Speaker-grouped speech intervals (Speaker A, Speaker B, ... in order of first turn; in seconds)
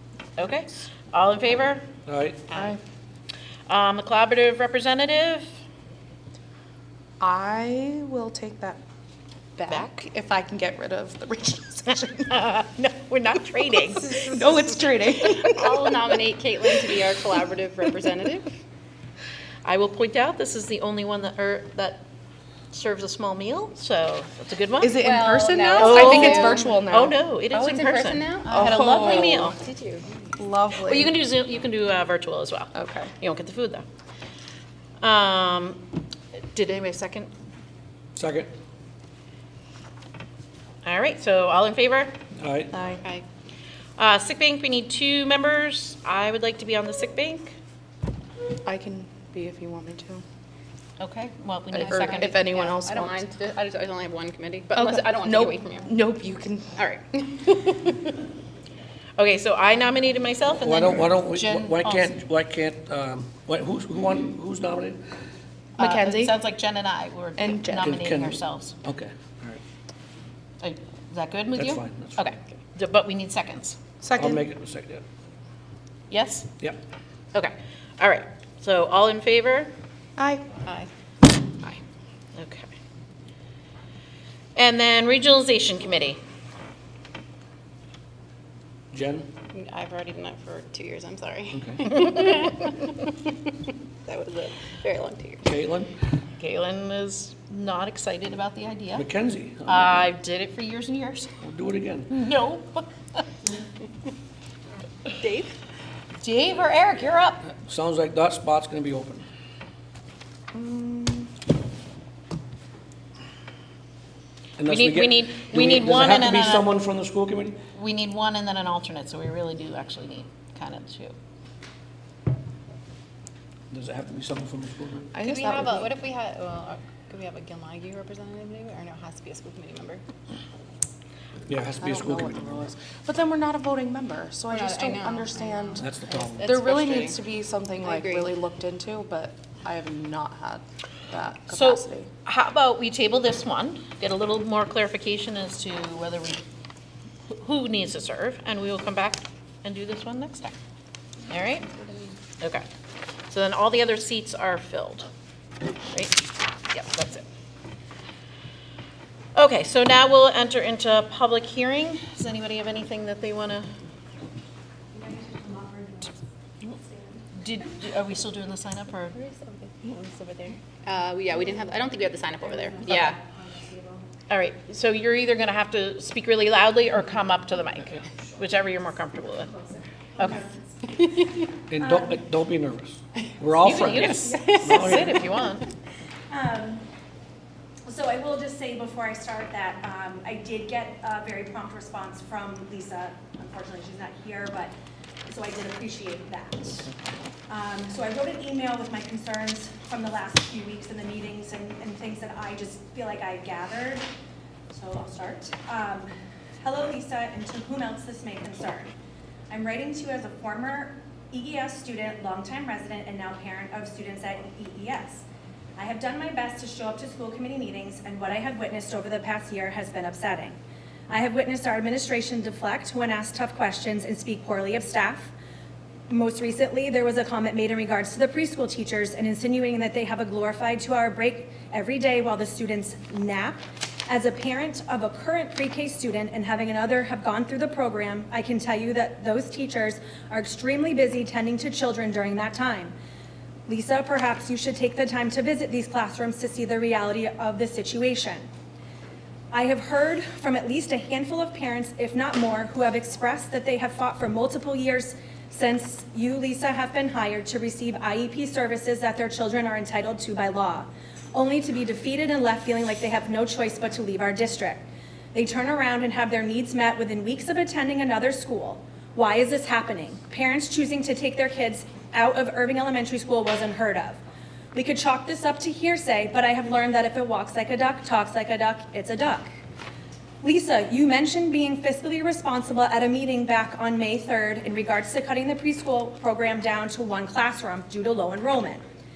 Speaker A: 0.4-1.8, 3.7-5.5, 9.7-10.0, 11.9-14.4, 19.6-22.0, 22.7-25.1, 25.8-29.6, 30.8-33.8, 35.0-37.3, 40.8-42.1, 44.0-47.5, 51.0-52.8, 59.2-62.1, 65.8-68.8, 70.6-73.8, 76.1-76.5, 77.3-79.7, 82.3-82.7, 84.5-86.2, 96.4-99.0, 99.7-101.3, 102.1-103.2, 106.2-107.5, 114.6-116.7, 117.7-121.1, 141.5-146.4, 147.3-150.6, 151.3-151.7, 152.4-152.7, 153.3-155.1, 155.9-157.2, 159.3-163.7, 167.4-169.2, 172.8-173.2, 174.3-179.5, 183.6-185.7
Speaker B: 2.1-2.4, 38.2-38.5, 42.4-42.7, 60.6-65.0, 67.8-69.6, 71.5-72.2, 74.2-75.0, 88.9-89.3, 91.5-91.9, 95.4-96.0, 99.0-100.0, 101.4-102.1, 107.6-109.2, 114.6-117.6, 123.7-125.1, 131.5-132.6, 135.8-136.7, 181.7-185.4
Speaker C: 7.2-8.8, 9.6-12.3, 14.1-15.6, 24.8-27.1, 28.5-29.5, 30.4-31.1, 32.8-33.1, 42.7-43.0, 48.6-50.2, 51.7-53.1, 54.8-56.6, 65.8-66.3, 67.4-67.8, 74.0-74.4, 80.2-80.4, 110.5-111.3, 125.1-125.9, 131.7-135.8, 136.4-142.1
Speaker D: 15.2-18.5, 24.9-26.8, 27.5-30.1, 51.8-55.9, 56.8-57.5, 89.5-93.1, 94.0-95.4, 125.2-130.0, 134.5-137.2, 137.8-138.4, 169.5-173.2
Speaker E: 25.9-26.2, 165.5-166.1, 179.7-180.6, 181.8-182.2, 186.3-186.9, 187.9-194.7, 195.3-196.9, 197.5-204.1, 204.7-208.9, 209.5-215.2, 215.8-220.6, 221.1-225.3, 226.1-242.9, 243.7-248.5, 249.5-274.2, 274.7-279.5, 280.4-288.8